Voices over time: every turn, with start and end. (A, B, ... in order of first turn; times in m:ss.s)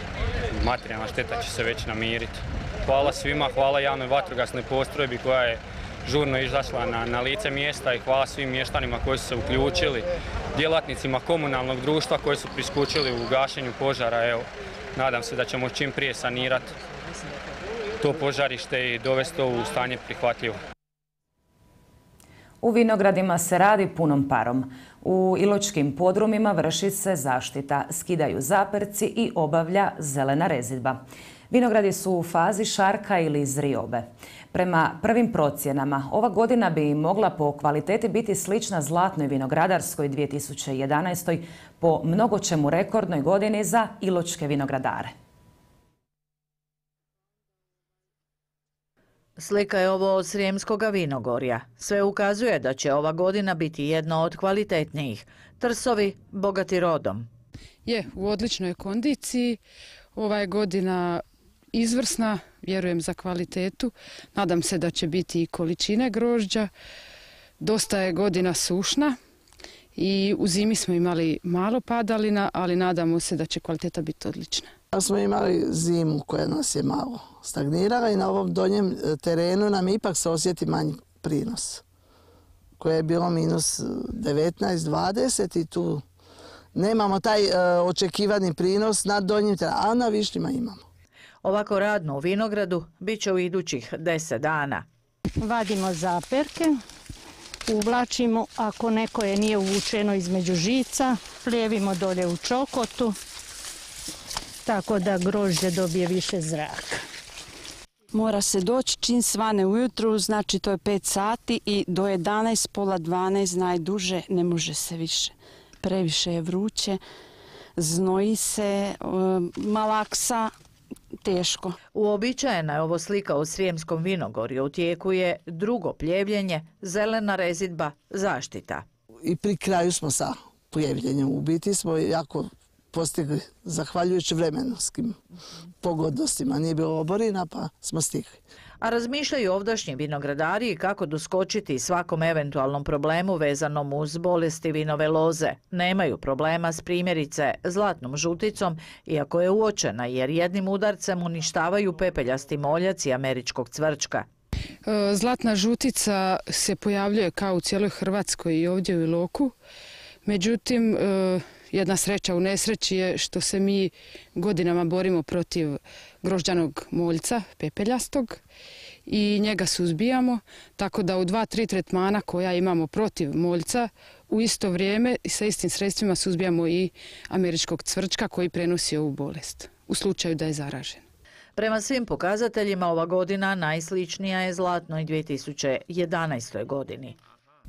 0:00.5-0:16.7 A
0:18.0-0:20.6 A
0:22.6-0:31.0 B
0:31.5-0:45.1 B
0:49.4-0:57.3 C
0:57.8-0:59.6 D
1:00.2-1:01.2 D
1:01.7-1:06.7 D
1:07.6-1:09.2 D
1:10.0-1:14.7 D
1:15.0-1:21.8 E
1:22.8-1:26.0 E
1:26.8-1:30.8 E
1:31.4-1:34.8 C
1:35.4-1:36.7 F
1:37.8-1:43.0 F
1:44.7-1:46.8 F
1:48.2-1:57.0 G
1:57.8-2:00.5 G
2:01.2-2:01.7 G
2:01.9-2:08.8 C
2:09.3-2:15.2 E
2:15.8-2:18.4 E
2:18.8-2:34.2 C
2:34.9-2:39.5 D
2:40.2-2:48.4 D
2:49.1-3:01.0 D
3:01.6-3:07.2 C